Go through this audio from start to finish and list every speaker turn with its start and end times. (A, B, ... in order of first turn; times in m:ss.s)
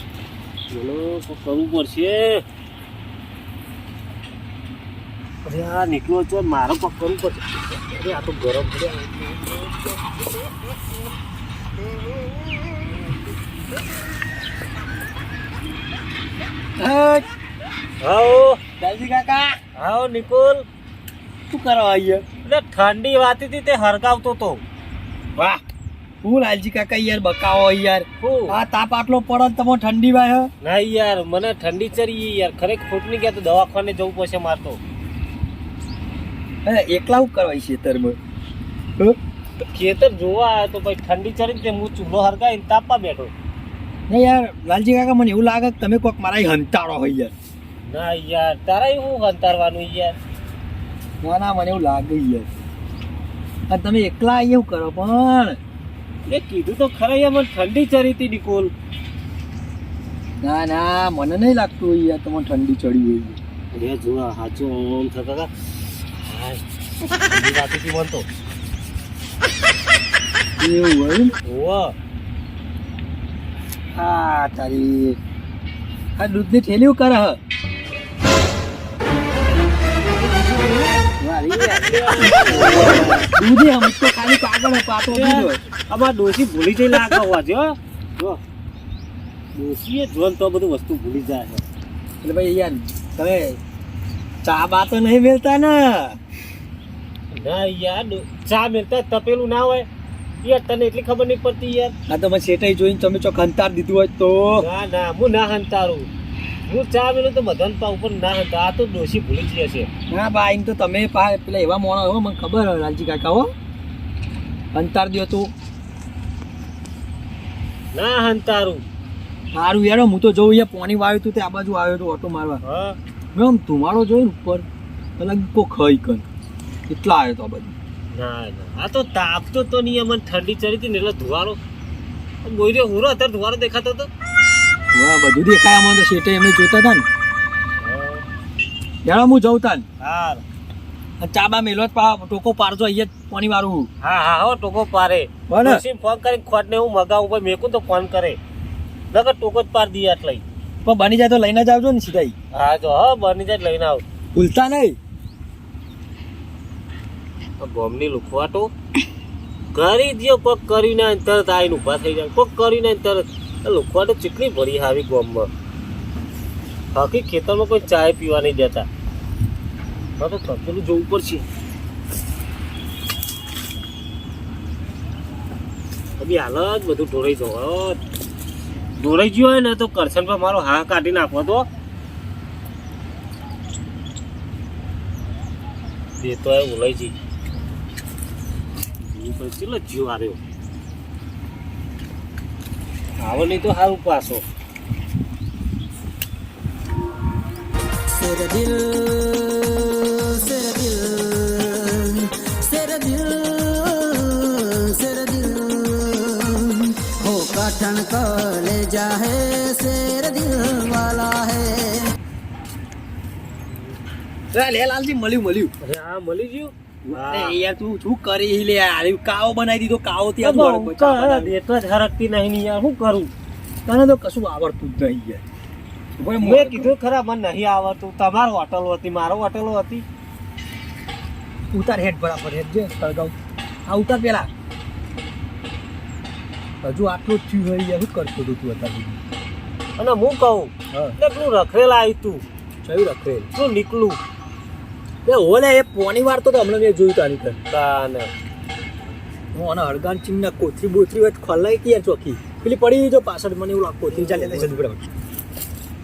0:00.7-0:02.4 A
0:05.4-0:10.6 A
0:12.2-0:12.9 A
0:16.8-0:17.2 B
0:18.0-0:18.6 A
0:18.8-0:19.6 B
0:19.8-0:20.6 A
0:21.5-0:22.2 B
0:22.4-0:24.6 A
0:25.4-0:25.6 B
0:26.2-0:30.5 B
0:28.2-0:28.6 A
0:30.6-0:34.8 A
0:36.6-0:38.2 B
0:39.7-0:43.3 A
0:44.1-0:47.3 B
0:47.8-0:50.2 A
0:51.2-0:52.5 B
0:53.7-0:55.6 B
0:56.2-0:58.7 A
1:00.4-1:03.4 B
1:03.7-1:05.5 A
1:06.1-1:06.6 A
1:07.2-1:08.3 A
1:10.6-1:11.3 B
1:11.4-1:11.9 A
1:13.9-1:15.2 B
1:16.2-1:17.4 B
1:20.2-1:21.0 A
1:21.1-1:22.3 B
1:21.8-1:23.3 A
1:23.3-1:25.6 B
1:25.1-1:28.4 A
1:29.5-1:31.6 A
1:32.2-1:33.6 B
1:34.4-1:36.2 B
1:37.3-1:39.9 A
1:40.4-1:42.0 A
1:42.1-1:44.6 B
1:44.6-1:46.1 A
1:46.7-1:49.9 A
1:50.1-1:53.5 B
1:54.7-1:55.5 B
1:57.9-1:58.8 A
1:59.5-2:02.6 B
2:02.6-2:03.0 A
2:03.3-2:04.6 B
2:05.2-2:06.2 B
2:06.9-2:07.7 B
2:08.1-2:11.6 A
2:12.4-2:14.1 A
2:14.9-2:17.0 B
2:17.8-2:18.2 A
2:19.0-2:19.8 B
2:20.0-2:20.4 A
2:21.2-2:23.9 B
2:24.0-2:28.4 A
2:25.5-2:25.8 B
2:29.1-2:30.4 A
2:30.8-2:32.4 B
2:32.5-2:34.0 A
2:34.3-2:35.0 B
2:37.6-2:38.7 A
2:39.7-2:45.5 A
2:46.9-2:48.9 A
2:50.2-2:51.4 A
2:56.2-2:58.0 A
2:59.0-3:01.7 A
3:06.2-3:07.1 A
3:09.0-3:10.4 A
3:13.2-3:14.4 A
3:18.1-3:32.1 C
3:34.5-3:35.7 B
3:35.8-3:37.6 A
3:37.0-3:41.5 B
3:40.4-3:43.3 A
3:43.8-3:45.4 B
3:46.2-3:46.9 B
3:46.4-3:50.0 A
3:51.7-3:53.3 B
3:53.8-3:54.5 B
3:56.8-3:59.2 B
4:00.0-4:02.4 A
4:02.8-4:03.5 B
4:03.5-4:04.2 A
4:05.2-4:07.6 B
4:07.7-4:08.3 A
4:09.5-4:15.0 B
4:14.1-4:14.7 A